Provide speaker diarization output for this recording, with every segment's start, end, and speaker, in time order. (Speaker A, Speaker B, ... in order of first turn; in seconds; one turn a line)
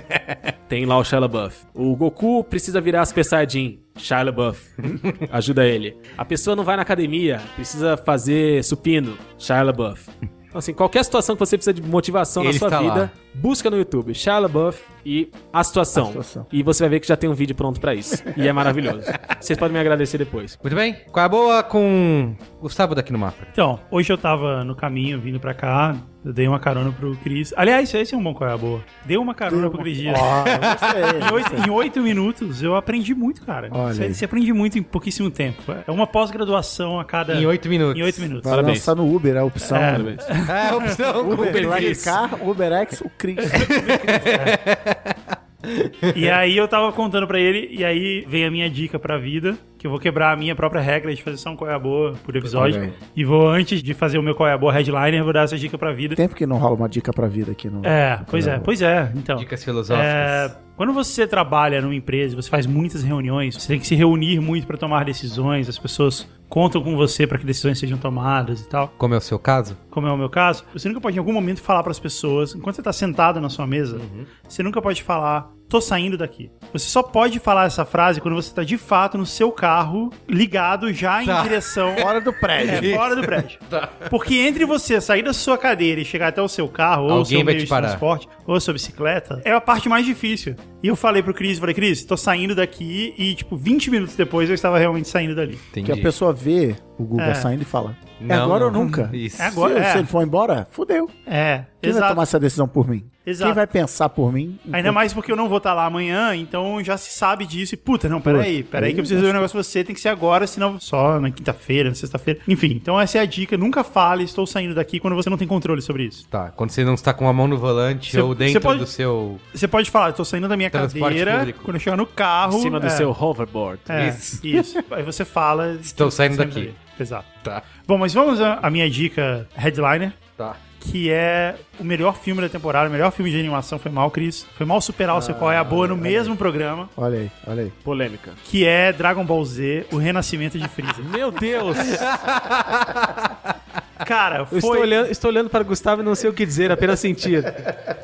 Speaker A: 0.7-20.6
Speaker B: 12.4-13.1
Speaker C: 15.9-16.5
Speaker B: 20.6-23.5
Speaker D: 23.6-30.4
Speaker C: 29.5-31.7
Speaker B: 30.4-31.2
Speaker D: 31.1-38.6
Speaker C: 33.7-34.2
Speaker B: 37.3-38.3
Speaker C: 38.4-40.2
Speaker A: 38.5-38.9
Speaker D: 39.7-41.0
Speaker A: 39.9-40.2
Speaker B: 40.4-42.0
Speaker A: 41.2-42.2
Speaker C: 41.2-43.8
Speaker B: 43.5-46.3
Speaker D: 43.5-44.6
Speaker D: 46.1-56.2
Speaker B: 52.4-53.0
Speaker C: 52.6-52.9
Speaker C: 56.2-58.7
Speaker D: 57.8-68.9
Speaker B: 59.4-60.5
Speaker B: 69.0-69.8
Speaker D: 69.9-95.7
Speaker B: 73.9-74.3
Speaker B: 81.2-84.1
Speaker C: 82.0-83.0
Speaker B: 87.1-88.0
Speaker B: 95.7-96.1
Speaker C: 95.8-101.1
Speaker D: 97.2-97.5
Speaker B: 98.2-99.6
Speaker D: 98.8-100.1
Speaker D: 101.3-102.2
Speaker C: 101.8-105.0
Speaker D: 103.2-103.6
Speaker D: 104.7-116.2
Speaker C: 108.2-109.5
Speaker B: 116.3-119.4
Speaker D: 118.1-118.9
Speaker D: 119.5-123.1
Speaker B: 120.7-121.7
Speaker A: 122.5-124.0
Speaker D: 123.9-130.2
Speaker B: 123.9-124.4
Speaker B: 125.8-126.7
Speaker D: 130.7-136.9
Speaker C: 135.1-136.3
Speaker C: 136.9-137.7
Speaker A: 137.8-138.4
Speaker D: 138.4-141.1
Speaker A: 141.0-142.1
Speaker B: 141.9-143.4
Speaker D: 144.0-145.0
Speaker A: 144.5-147.7